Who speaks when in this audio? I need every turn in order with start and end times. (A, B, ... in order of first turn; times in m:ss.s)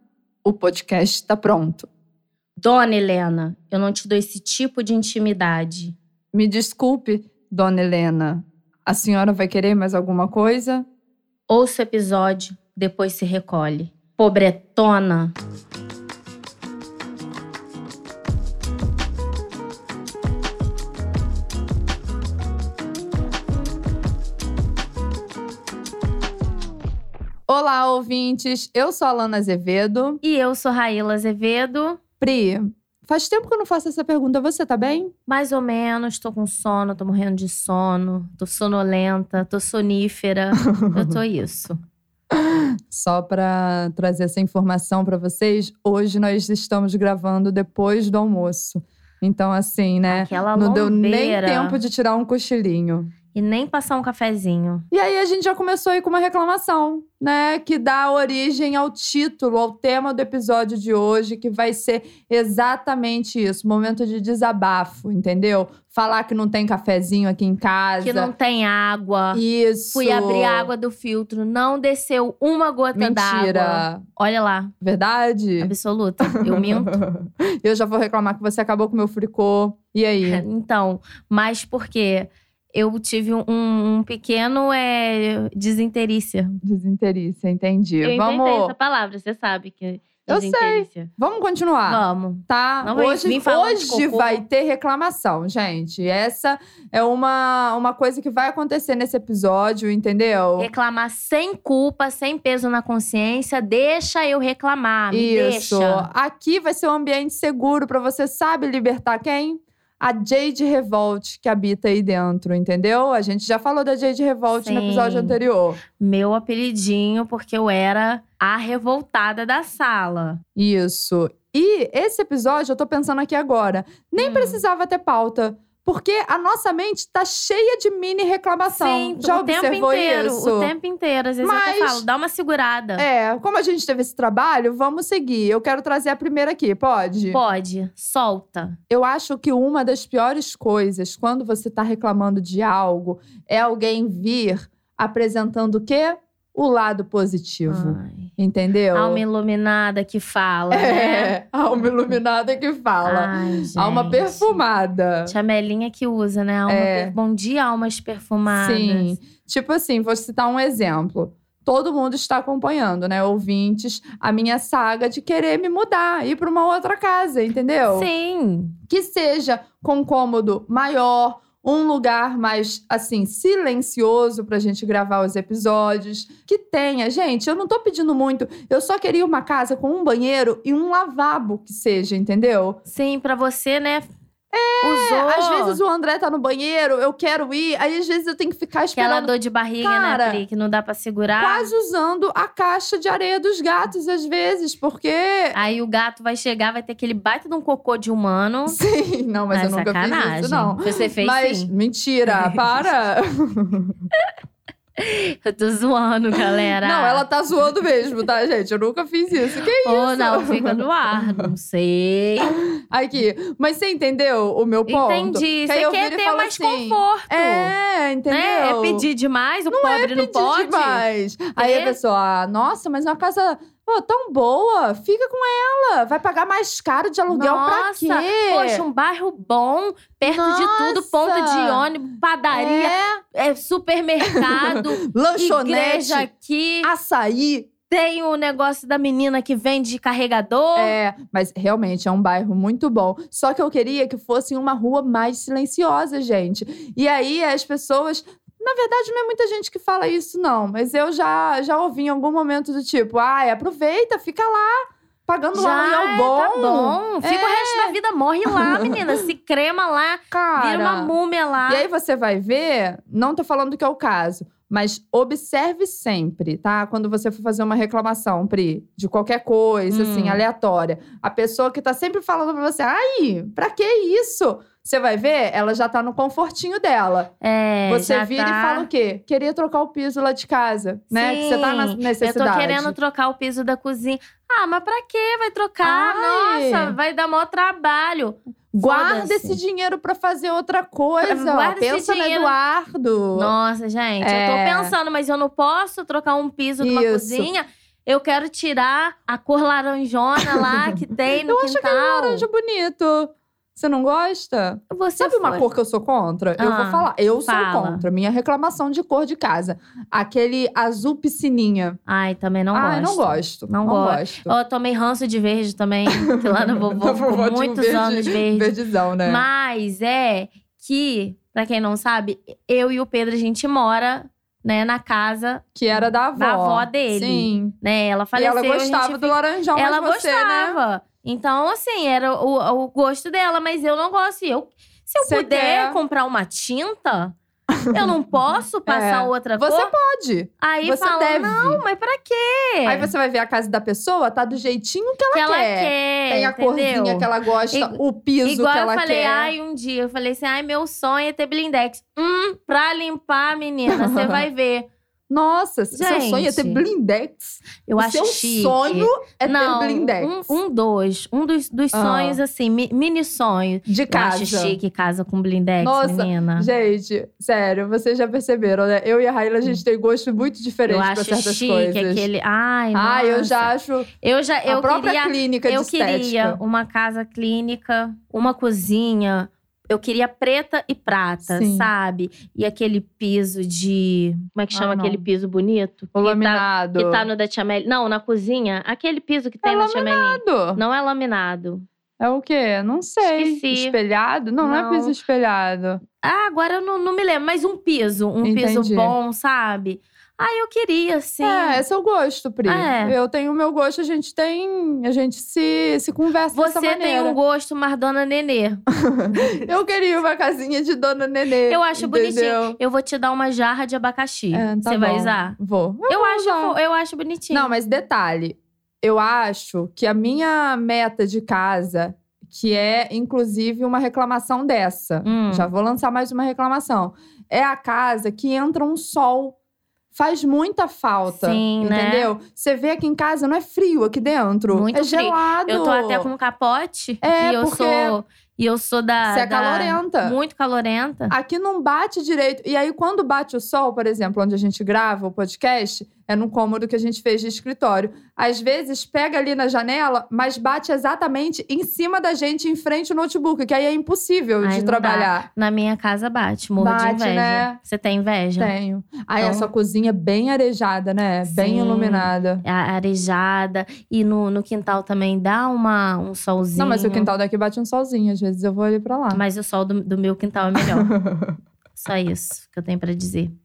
0:00.4-0:01.9 A
0:02.6-0:05.9 B
0:06.3-0:10.8 A
0:11.5-0:15.3 B
0:27.5-0:30.2 A
0:30.2-0:32.0 B
0:32.2-0:35.1 A
0:35.3-0:41.8 B
0:40.6-0:41.1 A
0:42.4-0:53.1 A
0:50.1-0:51.8 B
0:53.3-0:54.8 B
0:54.9-1:08.3 A
1:08.0-1:09.4 B
1:09.3-1:10.7 A
1:09.9-1:14.7 B
1:12.9-1:14.0 A
1:14.8-1:20.4 A
1:15.6-1:17.0 B
1:20.2-1:26.6 B
1:26.6-1:28.7 A
1:28.0-1:31.1 B
1:30.3-1:40.7 A
1:31.9-1:34.4 B
1:40.6-1:46.1 B
1:45.1-1:55.8 A
1:54.5-1:55.4 B
1:55.9-2:00.4 B
2:00.6-2:10.7 A
2:04.2-2:04.6 B
2:08.7-2:13.0 B
2:11.4-2:12.0 A
2:13.0-2:17.4 A
2:17.3-2:18.8 B
2:18.9-2:29.2 A
2:27.7-2:28.3 B
2:28.9-2:31.3 B
2:30.7-2:35.3 A
2:33.0-2:34.6 B
2:35.3-2:39.2 B
2:36.7-2:37.1 A
2:38.5-2:48.1 A
2:47.9-2:48.7 B
2:48.9-3:02.8 A
3:02.9-3:04.1 B
3:04.5-3:10.4 A
3:04.8-3:05.8 B
3:09.0-3:11.7 B
3:11.4-3:15.6 A
3:15.5-3:18.8 B
3:18.7-3:24.0 A
3:19.5-3:21.7 B
3:22.3-3:22.9 B
3:25.0-3:27.2 B
3:26.8-3:30.8 A
3:29.8-3:32.6 B
3:32.9-3:39.0 A
3:34.9-3:37.7 B
3:38.3-3:41.0 B
3:39.7-3:48.8 A
3:41.6-3:42.0 B
3:47.3-3:56.9 B
3:50.2-3:51.9 A
3:52.5-3:53.2 A
3:54.3-3:56.3 A
3:56.8-3:57.7 A
3:57.9-4:00.9 B
4:00.8-4:17.9 A
4:15.5-4:21.8 B
4:18.5-4:19.2 A
4:20.3-4:21.1 A
4:21.7-4:37.3 A
4:29.9-4:30.4 B
4:37.4-4:38.9 B
4:37.9-4:42.9 A
4:41.1-4:49.6 B
4:45.8-4:46.9 A
4:48.7-4:53.5 A
4:51.2-4:52.5 B
4:53.3-5:02.4 B
4:54.2-4:54.9 A
4:56.8-4:57.5 A
5:00.4-5:01.0 A
5:01.5-5:12.0 A
5:04.9-5:05.6 B
5:06.6-5:08.0 B
5:12.1-5:37.3 B
5:12.7-5:14.5 A
5:16.1-5:19.4 A
5:25.7-5:27.7 A
5:28.4-5:30.8 A
5:35.2-5:36.0 A
5:37.8-5:38.2 A
5:37.9-5:39.9 B
5:38.8-5:41.8 A
5:40.6-5:43.1 B
5:42.8-5:49.5 A
5:45.3-5:54.9 B
5:53.9-5:54.4 A
5:55.3-6:00.6 A
5:55.9-5:56.8 B
5:57.8-6:06.7 B
6:01.9-6:02.4 A
6:03.8-6:04.8 A
6:05.8-6:12.3 A
6:10.9-6:31.8 B
6:12.9-6:14.1 A
6:14.7-6:16.6 A
6:21.5-6:21.9 A
6:24.7-6:25.2 A
6:26.1-6:27.2 A
6:29.6-6:30.8 A
6:32.2-6:36.0 A
6:33.2-6:34.0 B
6:34.6-6:35.2 B
6:36.2-6:41.8 B
6:38.4-6:39.1 A
6:41.4-6:47.4 A
6:42.6-6:43.1 B
6:46.5-6:49.6 B
6:49.0-6:52.8 A
6:51.7-6:55.6 B
6:54.5-6:56.8 A
6:56.1-6:57.7 B
6:57.5-7:09.6 A
7:05.2-7:05.7 B
7:10.1-7:16.3 A
7:11.3-7:12.3 B
7:14.7-7:21.3 B
7:17.2-7:18.2 A
7:19.3-7:20.4 A
7:21.3-7:35.5 A
7:34.6-7:38.7 B
7:36.8-7:37.8 A
7:38.6-7:42.6 A
7:39.4-7:39.7 B
7:41.4-7:47.3 B
7:46.8-7:49.4 A
7:49.3-7:51.1 B
7:51.0-7:51.6 A
7:52.0-7:53.5 B